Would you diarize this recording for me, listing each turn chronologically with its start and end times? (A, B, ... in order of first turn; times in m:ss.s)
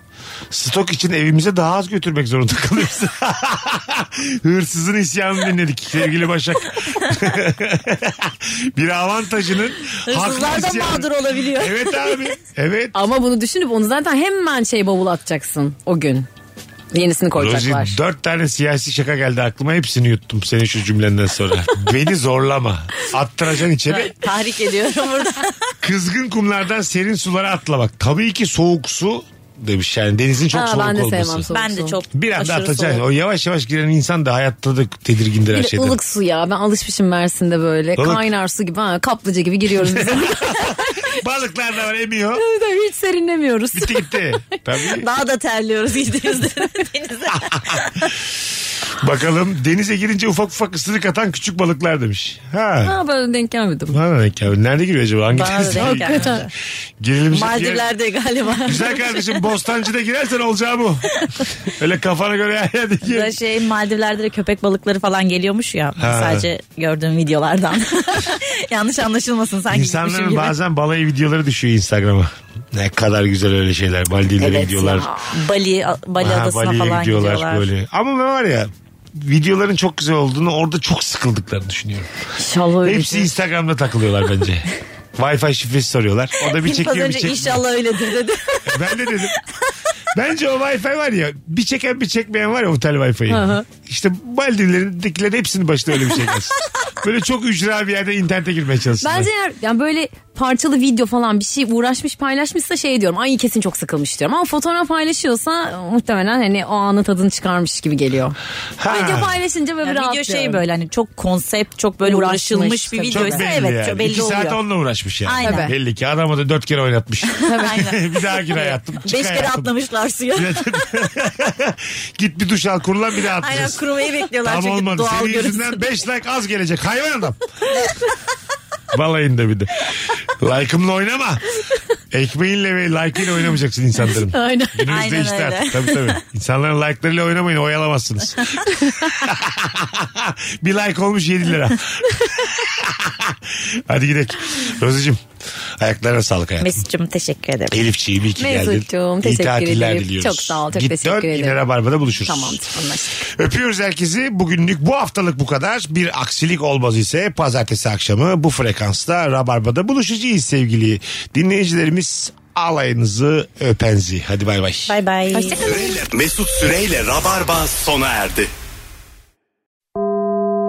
0:00.5-0:13.0 A
0:10.1-0:12.3 B
0:12.9-0:16.3 C
0:16.9-0:18.0 C
0:17.3-0:24.1 A
0:23.9-0:25.7 B
0:25.8-0:31.5 A
0:30.5-0:32.0 C
0:31.5-0:33.0 B
0:32.1-0:36.0 A
0:35.5-0:41.0 C
0:38.0-0:38.3 A
0:39.8-0:42.4 A
0:42.3-0:44.5 C
0:43.7-0:45.1 A
0:45.0-0:48.1 B
0:47.3-0:47.8 A
0:48.9-0:53.0 A
0:52.8-0:54.0 C
0:53.9-0:56.5 A
0:55.3-0:56.5 B
0:55.8-0:56.4 C
0:57.0-0:57.9 A
0:57.3-0:59.4 B
0:58.6-1:03.4 A
1:03.0-1:10.6 B
1:06.0-1:06.5 A
1:09.7-1:15.1 A
1:14.4-1:15.3 C
1:15.3-1:17.7 B
1:16.2-1:22.1 A
1:22.4-1:23.3 C
1:22.8-1:27.6 A
1:26.4-1:28.9 B
1:28.7-1:29.4 A
1:30.1-1:39.3 A
1:33.3-1:33.6 C
1:39.0-1:50.6 C
1:48.8-1:49.4 A
1:49.8-1:54.6 B
1:52.0-1:53.4 C
1:53.1-1:59.7 A
1:55.2-1:55.7 B
1:55.4-1:55.7 C
1:57.4-2:00.8 B
1:57.4-1:57.8 C
2:00.3-2:03.8 A
2:03.4-2:05.9 B
2:04.4-2:07.4 A
2:08.9-2:11.4 A
2:12.1-2:25.2 A
2:14.2-2:14.9 C
2:14.9-2:16.2 B
2:25.8-2:26.8 A
2:26.6-2:27.8 B
2:27.7-2:32.6 A
2:28.4-2:31.6 C
2:32.2-2:33.3 C
2:33.3-2:45.0 A
2:44.9-2:45.6 B
2:45.3-2:46.0 C
2:45.6-2:48.5 D